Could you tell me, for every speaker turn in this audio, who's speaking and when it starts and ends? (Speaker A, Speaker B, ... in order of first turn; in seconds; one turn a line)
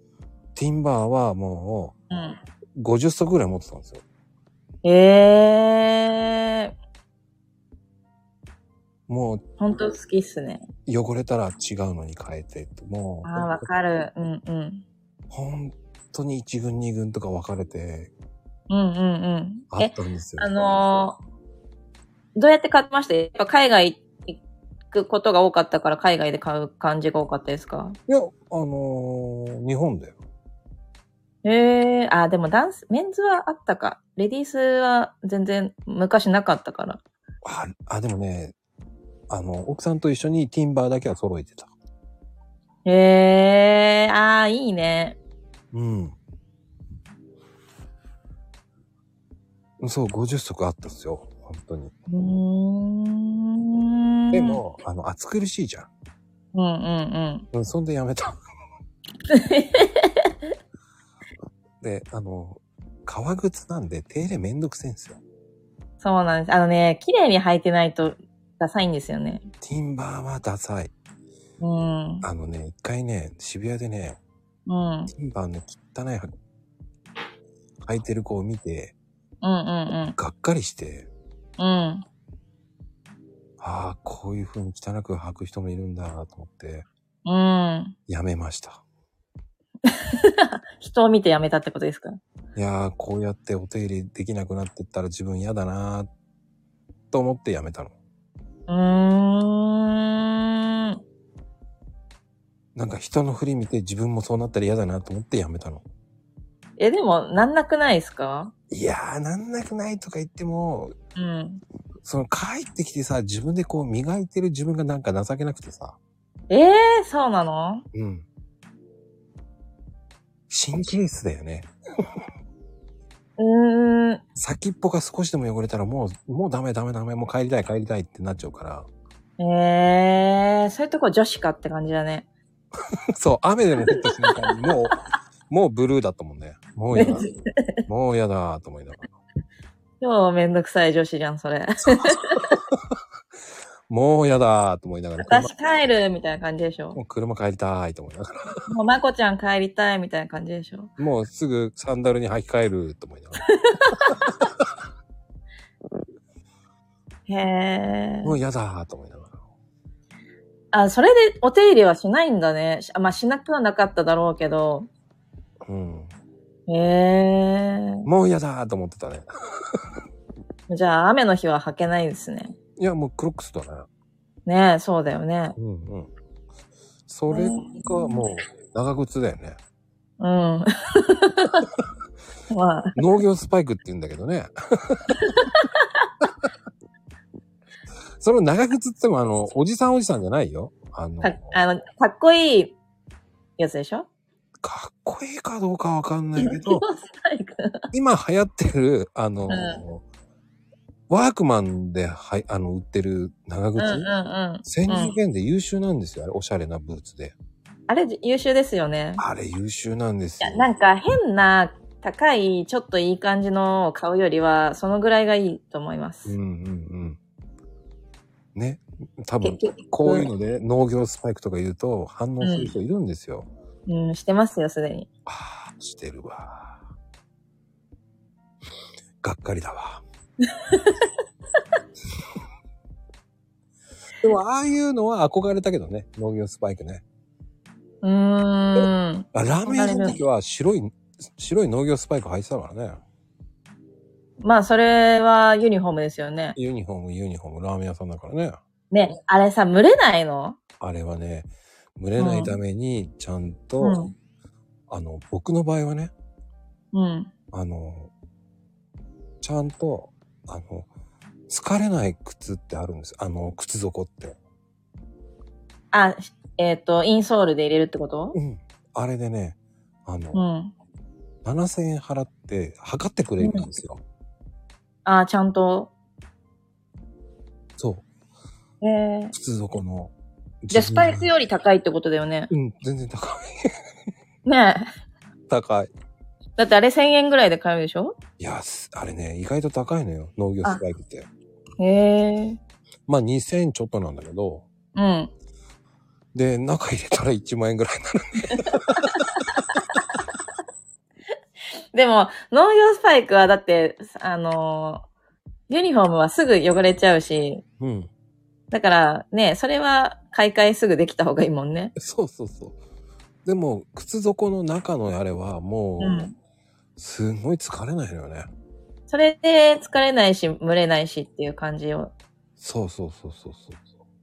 Speaker A: 0.6-1.9
Speaker B: 2.1-2.4
Speaker A: 2.8-4.0
Speaker B: 4.8-6.7
Speaker A: 9.1-9.4
Speaker B: 9.6-10.6
Speaker A: 10.9-13.7
Speaker B: 13.2-14.9
Speaker A: 15.3-18.1
Speaker B: 18.7-21.2
Speaker A: 19.7-20.8
Speaker B: 22.4-24.4
Speaker B: 24.9-28.0
Speaker A: 28.1-30.2
Speaker B: 31.4-37.0
Speaker A: 37.4-38.5
Speaker A: 39.3-41.7
Speaker B: 42.9-45.2
Speaker A: 45.7-46.2
Speaker A: 49.8-51.9
Speaker B: 52.1-54.6
Speaker A: 54.3-55.9
Speaker B: 56.5-57.5
Speaker A: 57.5-58.4
Speaker B: 59.3-60.3
Speaker A: 61.8-65.2
Speaker B: 66.0-69.5
Speaker A: 69.6-70.9
Speaker B: 71.6-72.3
Speaker A: 72.2-74.2
Speaker B: 74.7-75.1
Speaker A: 75.1-76.3
Speaker A: 77.8-79.0
Speaker B: 79.4-80.2
Speaker A: 80.2-81.1
Speaker B: 81.6-82.1
Speaker A: 83.6-86.9
Speaker B: 87.2-88.0
Speaker A: 88.1-88.8
Speaker B: 89.9-92.2
Speaker A: 92.5-96.1
Speaker A: 97.1-97.9
Speaker B: 98.7-101.0
Speaker A: 102.8-105.8
Speaker B: 106.8-108.5
Speaker A: 108.7-111.0
Speaker B: 111.2-111.6
Speaker A: 112.0-116.0
Speaker B: 116.5-117.8
Speaker A: 117.9-118.2
Speaker A: 120.5-122.2
Speaker B: 123.4-124.2
Speaker A: 124.4-128.9
Speaker B: 129.4-132.3
Speaker A: 133.2-135.0
Speaker B: 133.8-134.6
Speaker A: 135.5-137.3
Speaker B: 136.9-137.8
Speaker A: 137.9-139.1
Speaker B: 140.0-142.6
Speaker A: 141.9-143.0
Speaker A: 143.9-145.5
Speaker B: 145.2-147.0
Speaker A: 146.9-148.7
Speaker B: 148.7-150.9
Speaker A: 151.0-153.4
Speaker B: 153.5-154.4
Speaker A: 154.1-154.7
Speaker B: 157.3-158.3
Speaker A: 158.2-159.4
Speaker B: 160.7-164.9
Speaker A: 165.6-166.1
Speaker B: 166.7-168.1
Speaker A: 168.1-169.8
Speaker B: 170.7-172.6
Speaker A: 172.8-173.9
Speaker B: 174.5-175.6
Speaker A: 175.6-176.1
Speaker A: 177.1-179.6
Speaker B: 177.3-178.3
Speaker B: 180.2-181.7
Speaker B: 182.5-183.1
Speaker A: 183.0-185.4
Speaker B: 185.2-186.1
Speaker A: 188.2-191.6
Speaker B: 191.2-192.8
Speaker B: 193.6-194.1
Speaker A: 194.6-196.8
Speaker B: 196.4-197.8
Speaker A: 197.9-200.0
Speaker B: 199.5-199.8
Speaker A: 201.1-204.1
Speaker B: 203.8-205.2
Speaker A: 204.7-207.3
Speaker B: 207.9-209.2
Speaker A: 209.2-210.7
Speaker B: 210.4-216.3
Speaker A: 216.3-217.2
Speaker A: 218.6-223.5
Speaker B: 219.4-220.3
Speaker B: 222.4-222.7
Speaker B: 223.9-225.1
Speaker A: 225.3-226.8
Speaker A: 229.2-230.0
Speaker B: 230.5-231.1
Speaker A: 234.2-237.0
Speaker B: 238.0-240.2
Speaker A: 238.8-243.0
Speaker B: 244.4-246.6
Speaker A: 246.6-248.6
Speaker B: 248.9-250.6
Speaker A: 250.8-254.0
Speaker B: 252.2-252.6
Speaker B: 253.8-254.1
Speaker A: 254.9-256.1
Speaker B: 256.9-257.3
Speaker A: 257.5-258.1
Speaker A: 259.4-260.9
Speaker A: 261.5-264.4
Speaker B: 265.9-268.4
Speaker A: 268.4-270.4
Speaker B: 270.3-270.8
Speaker A: 271.4-274.0
Speaker B: 273.4-273.7
Speaker B: 275.1-275.9
Speaker A: 277.8-278.1
Speaker B: 278.8-279.3
Speaker A: 279.3-281.3
Speaker B: 280.7-282.5
Speaker A: 282.5-283.8
Speaker B: 284.5-284.9
Speaker A: 285.5-285.9
Speaker B: 286.6-288.1
Speaker A: 288.4-291.3
Speaker B: 291.8-292.6
Speaker A: 293.1-294.7
Speaker B: 294.9-295.3
Speaker A: 296.3-299.4
Speaker B: 298.5-299.3
Speaker B: 301.9-305.0
Speaker B: 305.7-307.6
Speaker A: 307.8-308.1
Speaker B: 308.7-311.9
Speaker A: 312.0-312.8
Speaker A: 313.4-316.3
Speaker B: 316.0-316.3
Speaker A: 317.0-318.5
Speaker B: 319.1-322.1
Speaker A: 322.6-323.9